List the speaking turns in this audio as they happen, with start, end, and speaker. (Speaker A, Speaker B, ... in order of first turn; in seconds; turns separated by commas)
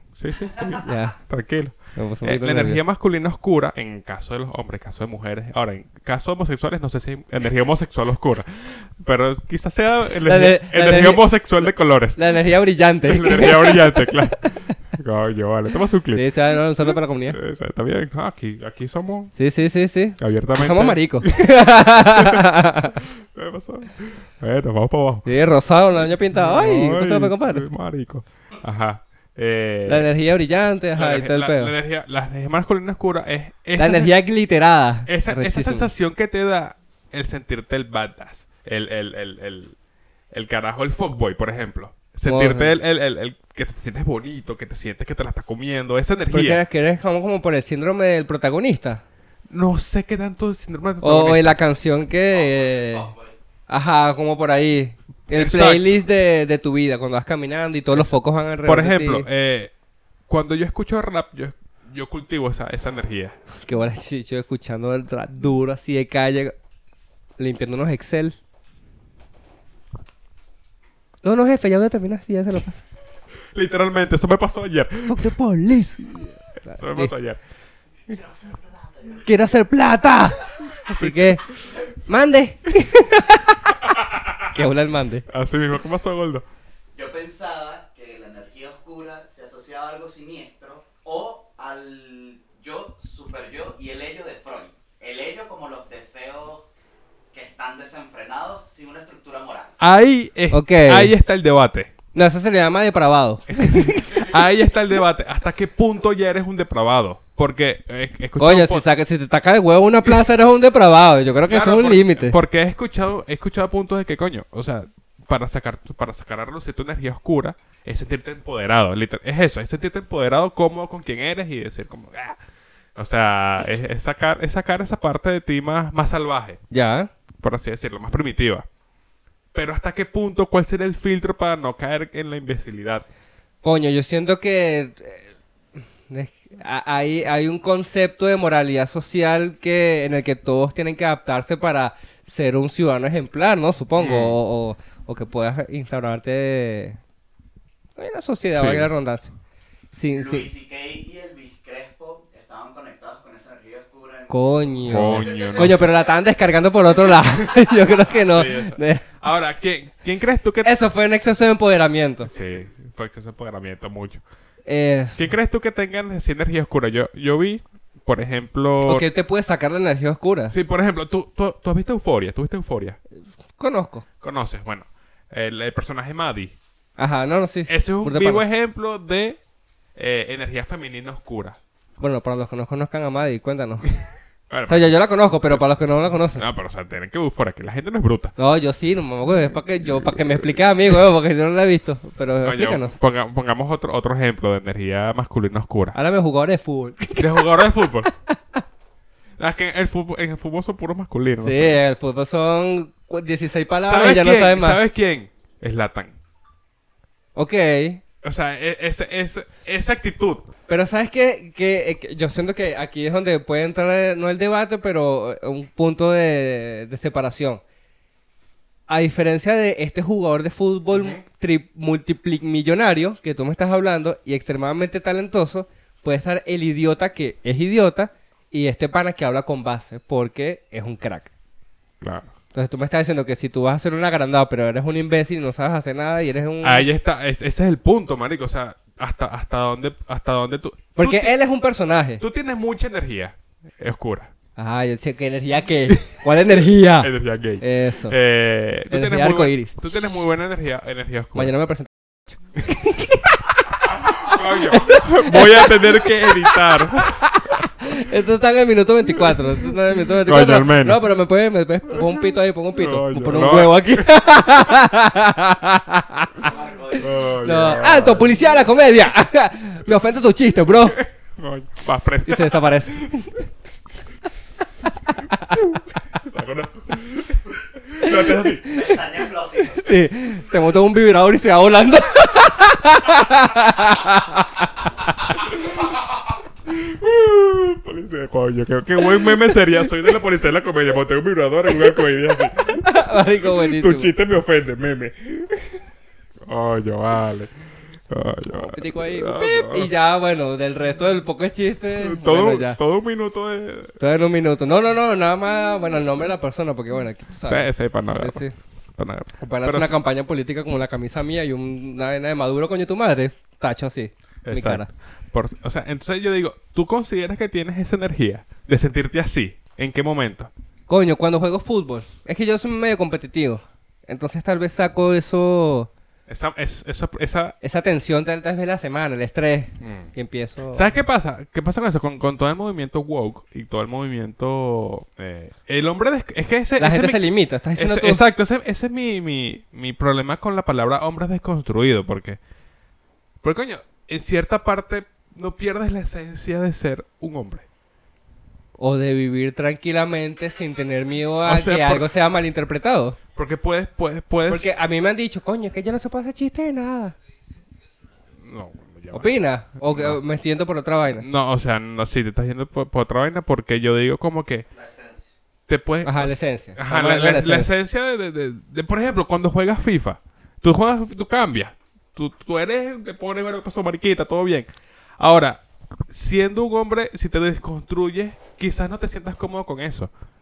Speaker A: 0.2-12.3, Speaker B: 0.8-1.2, Speaker B: 1.9-2.8, Speaker B: 10.2-11.3, Speaker B: 12.2-14.2, Speaker A: 13.0-16.3, Speaker B: 16.1-17.4, Speaker A: 16.8-19.3, Speaker B: 19.4-23.0, Speaker A: 20.2-25.3, Speaker B: 25.2-27.7, Speaker A: 26.3-30.1, Speaker B: 29.9-31.7, Speaker A: 30.9-34.1, Speaker B: 33.8-35.9, Speaker A: 35.1-39.8, Speaker A: 40.3-46.6, Speaker B: 42.2-42.7, Speaker B: 46.3-49.0, Speaker A: 49.5-51.6, Speaker B: 51.0-53.1, Speaker C: 52.3-53.4, Speaker B: 53.7-59.3, Speaker A: 55.3-55.9, Speaker A: 57.9-59.7, Speaker A: 60.3-63.4, Speaker B: 63.6-66.5, Speaker B: 67.4-68.4, Speaker B: 71.2-72.8, Speaker A: 73.5-75.3, Speaker B: 75.1-77.1, Speaker A: 76.7-77.4, Speaker D: 78.1-79.5, Speaker B: 79.2-81.4, Speaker A: 80.8-82.1, Speaker B: 82.1-83.8, Speaker A: 83.9-84.5, Speaker B: 84.5-85.2, Speaker A: 85.3-86.5, Speaker C: 86.9-96.7, Speaker C: 97.3-99.8, Speaker A: 99.8-101.9, Speaker B: 100.5-101.1, Speaker B: 102.1-104.3, Speaker A: 103.5-108.8, Speaker B: 108.4-112.4, Speaker A: 111.5-122.4, Speaker A: 123.0-126.6, Speaker B: 126.7-127.1, Speaker A: 127.4-128.7, Speaker A: 129.5-133.1, Speaker B: 133.6-135.3, Speaker B: 136.1-147.0, Speaker A: 144.0-144.4, Speaker B: 148.0-149.3, Speaker A: 148.5-148.9, Speaker B: 149.9-150.5, Speaker C: 150.1-155.8, Speaker B: 154.3-159.0, Speaker A: 154.9-155.8, Speaker A: 158.1-160.7, Speaker B: 160.6-162.3, Speaker A: 162.3-164.2, Speaker B: 164.7-165.2, Speaker A: 165.2-169.1, Speaker B: 168.9-170.5, Speaker A: 170.5-173.0, Speaker B: 173.6-174.1, Speaker A: 174.2-176.6, Speaker B: 177.0-178.4, Speaker A: 177.7-179.4, Speaker A: 180.0-181.6, Speaker B: 182.0-183.9, Speaker A: 184.5-184.9, Speaker B: 184.7-186.4, Speaker A: 186.3-188.3, Speaker B: 188.4-192.9, Speaker A: 192.4-196.0, Speaker B: 195.9-197.7, Speaker A: 197.2-198.1, Speaker B: 198.3-198.6, Speaker A: 199.4-201.8, Speaker B: 201.4-204.8, Speaker A: 203.7-206.2, Speaker B: 207.3-208.0, Speaker A: 208.2-210.5, Speaker B: 210.7-217.6, Speaker B: 218.9-231.3, Speaker A: 220.9-221.2, Speaker A: 232.0-232.3, Speaker B: 232.5-236.9, Speaker A: 236.6-241.4, Speaker B: 241.0-242.2, Speaker A: 242.2-244.3, Speaker B: 244.6-248.2, Speaker A: 245.9-251.5, Speaker B: 248.9-249.9, Speaker B: 251.4-253.3, Speaker A: 253.9-257.7, Speaker B: 254.2-256.3, Speaker B: 257.8-266.5, Speaker A: 259.2-261.0, Speaker A: 262.0-264.1, Speaker D: 266.4-267.2, Speaker A: 267.0-268.4, Speaker B: 267.4-271.0, Speaker A: 271.0-273.1, Speaker B: 272.2-273.4, Speaker A: 273.7-278.9, Speaker B: 278.1-279.0, Speaker D: 278.7-280.0, Speaker B: 279.6-284.9, Speaker A: 286.7-295.8, Speaker B: 292.7-294.1, Speaker A: 296.5-297.5, Speaker A: 298.1-299.9, Speaker B: 298.5-302.8, Speaker A: 301.9-304.0, Speaker B: 304.0-308.5, Speaker A: 307.4-308.4, Speaker A: 309.0-310.0, Speaker B: 309.4-314.9, Speaker A: 314.4-320.5, Speaker B: 320.9-325.9, Speaker A: 326.3-327.6, Speaker B: 327.6-330.9, Speaker A: 329.8-330.1, Speaker A: 330.7-337.2, Speaker B: 336.8-338.2, Speaker A: 337.8-342.4, Speaker A: 343.4-347.7, Speaker B: 348.8-353.2, Speaker A: 351.4-352.1, Speaker A: 353.4-354.8, Speaker B: 354.5-357.1, Speaker A: 358.4-360.2, Speaker B: 359.1-361.3, Speaker A: 361.2-364.7, Speaker D: 364.7-365.3, Speaker A: 365.7-374.7, Speaker B: 366.0-367.7, Speaker A: 375.2-380.1